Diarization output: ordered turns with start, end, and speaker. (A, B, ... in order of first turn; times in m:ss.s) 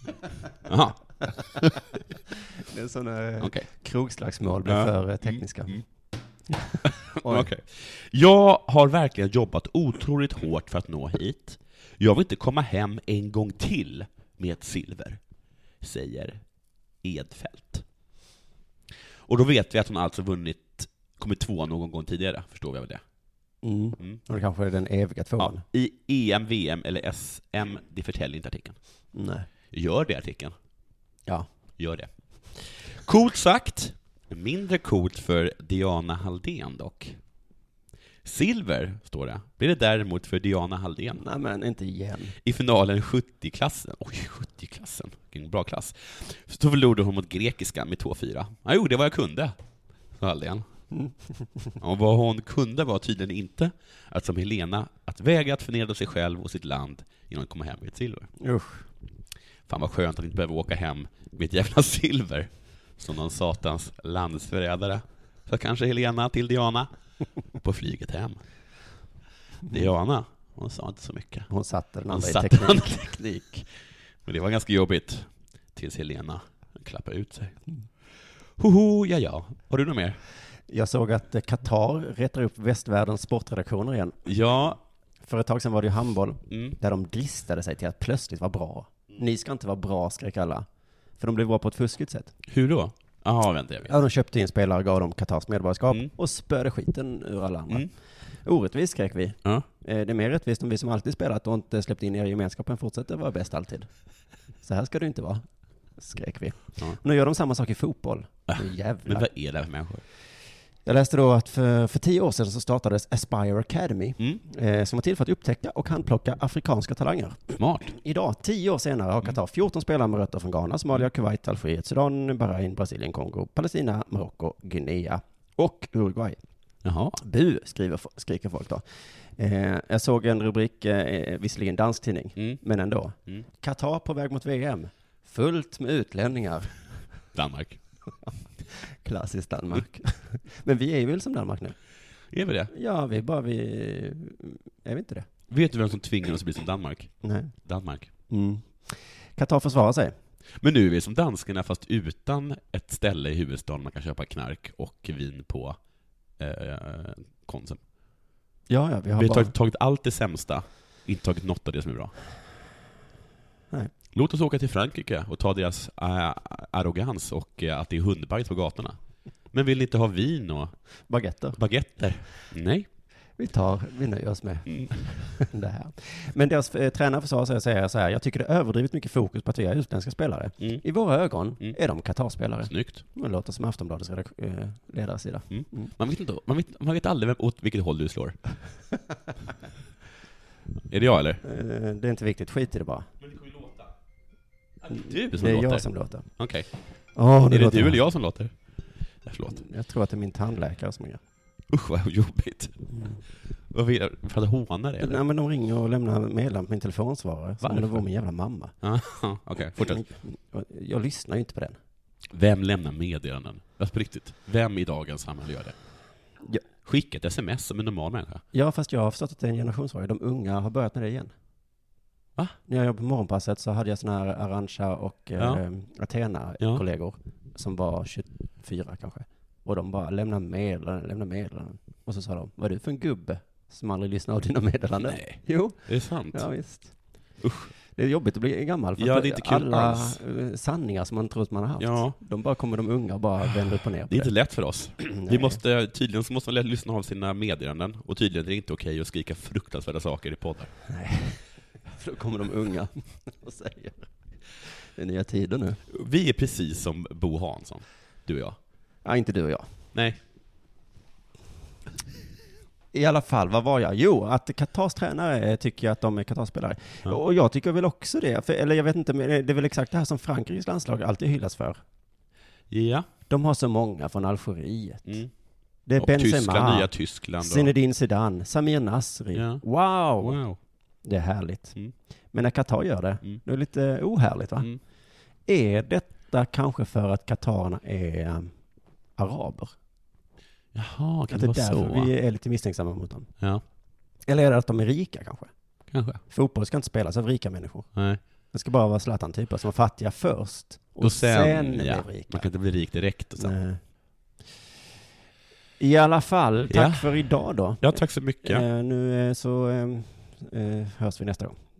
0:00.6-0:01.6 A
0:02.6-0:05.8 B
0:03.4-0:03.7 A
0:04.6-0:05.8 A
0:06.5-0:07.5 B
0:06.8-0:15.2 A
0:15.8-0:16.4 A
0:17.0-0:17.8 A
0:19.3-0:23.0 A
0:23.6-0:25.6 B
0:25.4-0:28.8 A
0:29.1-0:29.5 B
0:29.7-0:30.5 A
0:31.8-0:37.2 A
0:38.2-0:41.2 A
0:41.2-0:42.3 B
0:42.4-0:49.5 A
0:50.2-0:50.6 A
0:50.9-0:51.4 B
0:51.8-0:58.3 A
0:58.4-0:58.8 B
0:59.7-1:06.9 A
1:07.6-1:08.4 A
1:09.6-1:11.5 A
1:11.5-1:13.7 B
1:12.1-1:13.2 A
1:14.2-1:17.6 A
1:18.1-1:20.2 A
1:20.7-1:24.2 B
1:24.2-1:24.8 A
1:25.2-1:30.6 B
1:26.5-1:26.8 A
1:31.2-1:32.3 B
1:32.5-1:33.9 A
1:33.9-1:43.9 B
1:44.6-1:45.4 B
1:46.0-1:49.3 B
1:48.5-1:50.0 A
1:50.8-2:06.4 B
1:57.6-1:57.9 A
2:06.8-2:07.2 A
2:07.2-2:16.7 B
2:17.3-2:17.8 A
2:18.2-2:21.8 B
2:22.3-2:22.7 A
2:22.7-2:25.3 B
2:25.5-2:28.1 A
2:27.2-2:27.5 B
2:28.3-2:30.1 B
2:30.6-2:35.8 A
2:36.4-2:37.8 A
2:38.7-2:39.5 B
2:39.2-2:42.1 A
2:44.1-2:49.0 A
2:49.5-2:50.7 A
2:51.1-2:51.6 B
2:51.5-2:52.9 A
2:53.4-3:05.9 B
2:54.7-2:55.0 A
3:00.6-3:00.8 A
3:02.7-3:03.0 A
3:05.5-3:08.4 A
3:10.8-3:11.4 A
3:11.4-3:13.1 B
3:13.2-3:13.9 A
3:14.8-3:16.7 A
3:15.3-3:16.3 B
3:17.1-3:18.0 B
3:17.5-3:19.6 A
3:19.6-3:21.2 B
3:21.7-3:25.2 A
3:22.9-3:23.2 B
3:25.0-3:28.7 B
3:27.6-3:28.0 A
3:28.8-3:30.1 A
3:29.8-3:31.8 B
3:32.3-3:35.7 A
3:36.8-3:38.4 A
3:38.5-3:41.3 B
3:42.7-3:57.0 B
3:45.4-3:45.6 A
3:55.0-3:56.5 A
3:57.4-3:57.7 A
3:57.9-4:04.3 B
3:59.0-4:00.2 A
4:01.8-4:02.2 A
4:03.6-4:10.7 A
4:05.2-4:05.6 B
4:10.9-4:15.8 B
4:15.9-4:18.6 A
4:19.0-4:19.7 B
4:19.9-4:20.2 A
4:22.9-4:31.8 B
4:32.7-4:33.1 A
4:33.3-4:35.2 B
4:35.0-4:35.3 A
4:35.8-4:40.4 B
4:36.0-4:37.7 A
4:39.3-4:39.6 A
4:40.2-4:40.6 A
4:41.0-4:41.8 B
4:42.3-4:44.8 B
4:45.4-4:48.6 B
4:49.1-4:49.8 B
4:50.7-4:52.1 A
4:51.3-4:53.3 B
4:54.2-4:55.5 B
4:55.9-4:56.2 A
4:56.2-5:02.5 B
4:57.9-4:58.2 A
5:01.0-5:03.5 A
5:03.4-5:03.8 B
5:05.8-5:11.6 B
5:06.7-5:08.6 A